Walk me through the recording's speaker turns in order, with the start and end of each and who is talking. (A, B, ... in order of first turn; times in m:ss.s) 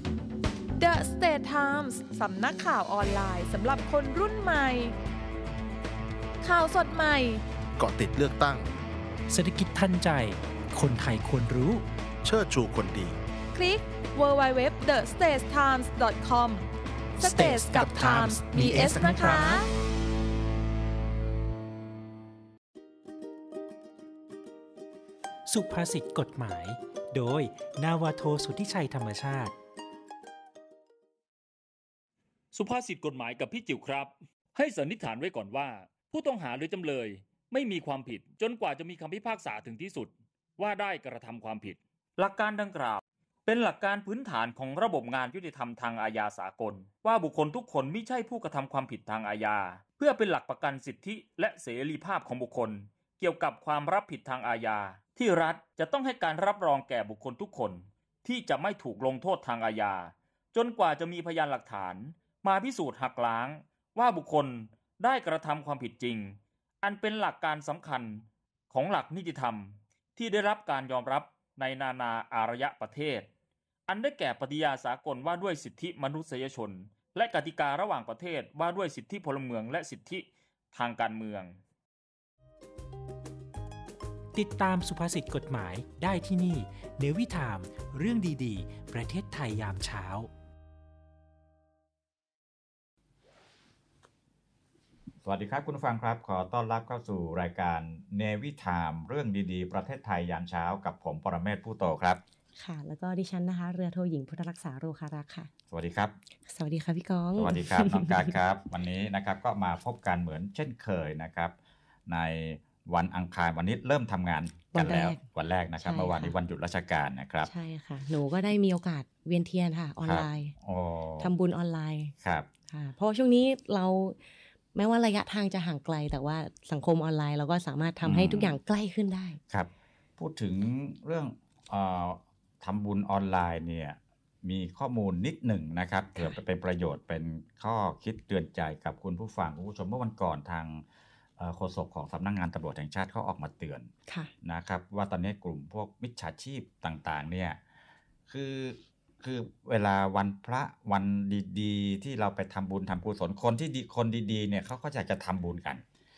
0:00.8-0:04.9 A
0:06.4-0:07.4 A
0:07.8-0:08.7 B
0:09.3-0:11.8 C
0:12.2-0:13.2 B
0:13.5-0:16.7 A
0:17.2-0:19.6 C
0:17.2-0:19.7 A
0:17.8-0:18.1 B
0:25.5-0:29.5 C
0:32.5-1:13.3 D
1:13.9-1:21.5 D
1:24.3-1:30.3 C
1:35.2-1:42.2 E
1:42.6-1:45.5 F
1:45.7-1:46.1 E
1:46.5-1:48.3 F
1:47.4-1:51.5 E
1:52.1-1:57.5 E
1:54.7-1:55.2 F
1:55.8-1:56.3 F
1:57.5-2:00.5 F
2:00.0-2:01.3 E
2:01.2-2:02.1 F
2:02.2-2:02.5 E
2:02.7-2:04.2 F
2:04.7-2:09.4 F
2:08.0-2:08.5 E
2:09.5-2:20.8 E
2:21.4-2:23.9 E
2:24.4-2:27.6 E
2:28.3-2:35.8 E